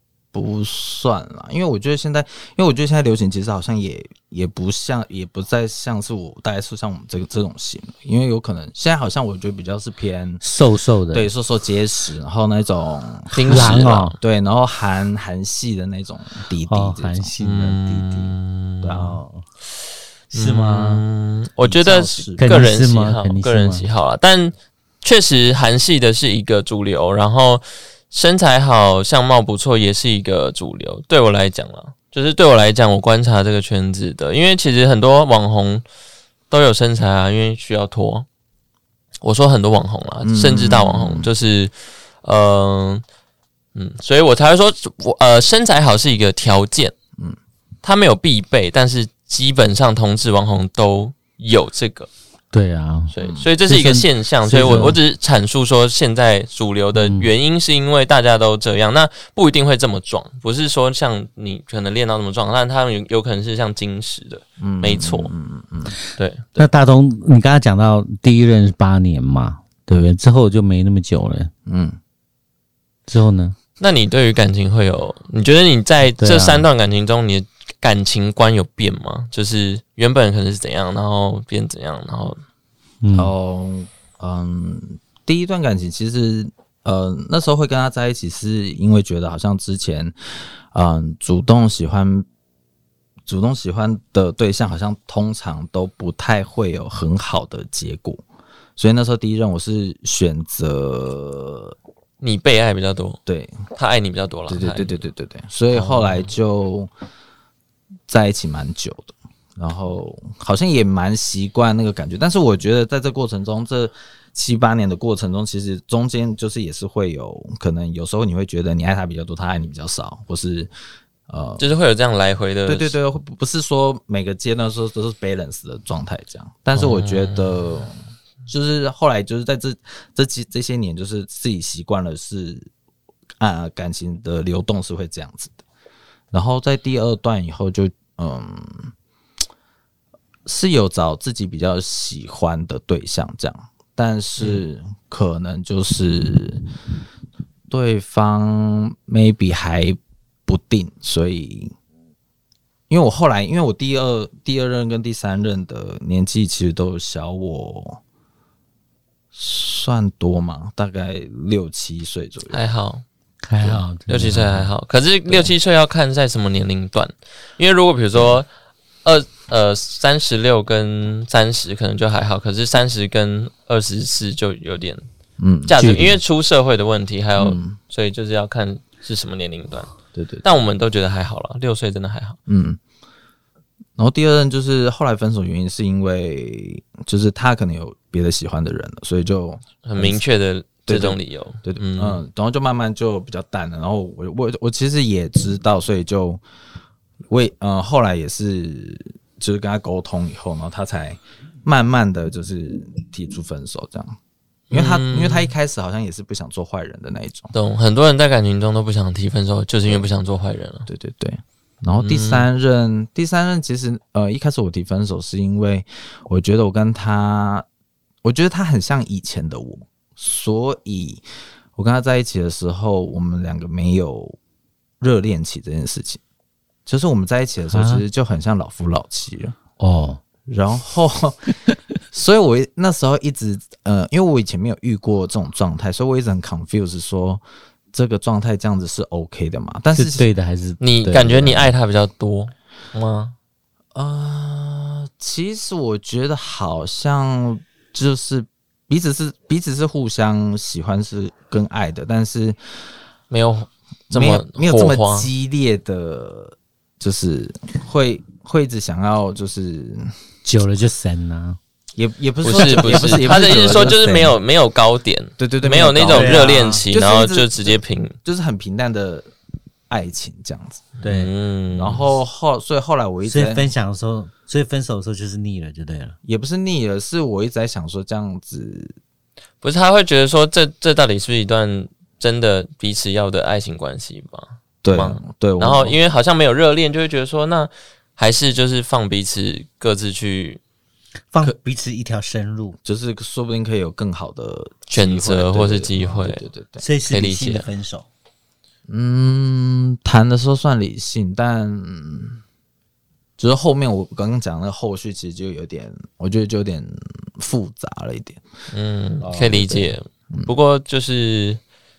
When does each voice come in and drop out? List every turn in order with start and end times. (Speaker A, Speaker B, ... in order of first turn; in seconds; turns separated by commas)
Speaker A: 0.3-10.4, Speaker B: 10.4-11.3, Speaker A: 11.1-17.3, Speaker C: 13.3-14.2, Speaker B: 13.5-14.1, Speaker B: 16.7-18.1, Speaker C: 17.4-19.0, Speaker A: 17.9-18.3, Speaker A: 18.8-19.2, Speaker B: 18.9-19.4, Speaker C: 20.3-35.8, Speaker B: 20.3-21.0, Speaker A: 21.6-22.5, Speaker B: 22.4-23.9, Speaker C: 36.5-38.3, Speaker C: 39.2-41.7, Speaker A: 40.2-41.3, Speaker C: 42.2-43.0, Speaker C: 43.7-46.9, Speaker C: 47.8-52.1, Speaker B: 52.5-53.1, Speaker C: 53.1-65.3, Speaker A: 53.2-53.5, Speaker B: 53.7-55.0, Speaker A: 54.6-54.9, Speaker B: 57.0-57.3, Speaker A: 64.6-66.0, Speaker C: 66.2-66.4, Speaker B: 66.6-71.5, Speaker A: 71.7-72.0, Speaker B: 73.1-73.5, Speaker C: 73.8-82.4, Speaker B: 76.2-76.7, Speaker B: 83.0-83.3, Speaker A: 83.1-92.3, Speaker A: 93.2-98.2, Speaker A: 98.8-101.7, Speaker C: 102.2-103.2, Speaker A: 103.3-103.6, Speaker C: 103.7-105.0, Speaker A: 104.5-106.9, Speaker C: 105.7-106.3, Speaker A: 108.1-120.7, Speaker A: 121.3-121.7, Speaker C: 121.6-122.9, Speaker A: 122.7-128.0, Speaker C: 126.7-127.6, Speaker A: 128.5-132.7, Speaker A: 133.4-135.6, Speaker A: 136.3-138.9, Speaker A: 140.4-146.6, Speaker A: 147.7-151.7, Speaker A: 152.9-158.0, Speaker A: 159.3-162.6, Speaker C: 162.5-163.0, Speaker B: 163.4-164.7, Speaker C: 163.6-168.5, Speaker A: 168.1-168.4, Speaker C: 169.0-175.0, Speaker A: 175.4-175.8, Speaker C: 175.7-182.4, Speaker B: 175.8-176.2, Speaker A: 177.4-177.8, Speaker A: 180.1-180.4, Speaker A: 182.5-182.8, Speaker A: 184.0-190.2, Speaker C: 189.8-192.2, Speaker A: 190.8-196.4, Speaker A: 197.3-204.2, Speaker C: 204.7-205.5, Speaker A: 204.7-207.5, Speaker C: 207.5-210.9, Speaker A: 210.9-217.7, Speaker C: 212.0-212.4, Speaker A: 218.2-221.2, Speaker A: 221.8-224.4, Speaker A: 225.0-226.2, Speaker A: 226.8-229.6, Speaker B: 227.7-228.0, Speaker B: 229.8-230.2, Speaker A: 230.5-231.5, Speaker A: 232.1-240.2, Speaker B: 239.9-241.7, Speaker C: 240.8-243.3, Speaker A: 243.9-252.6, Speaker C: 253.3-255.3, Speaker A: 254.1-260.1, Speaker B: 260.4-261.6, Speaker A: 261.9-264.3, Speaker C: 262.4-268.1, Speaker B: 262.6-264.3, Speaker A: 265.4-269.3, Speaker B: 266.1-266.8, Speaker A: 269.9-271.0, Speaker C: 271.0-272.0, Speaker B: 271.0-271.3, Speaker A: 271.7-273.7, Speaker B: 273.2-276.1, Speaker A: 276.2-278.9, Speaker C: 279.6-290.6, Speaker A: 284.8-286.0, Speaker B: 291.3-292.8, Speaker A: 292.8-296.8, Speaker C: 294.9-296.4, Speaker B: 296.8-298.1, Speaker C: 297.1-297.6, Speaker A: 298.9-302.4, Speaker A: 303.4-308.4, Speaker C: 308.7-311.6, Speaker A: 309.2-310.5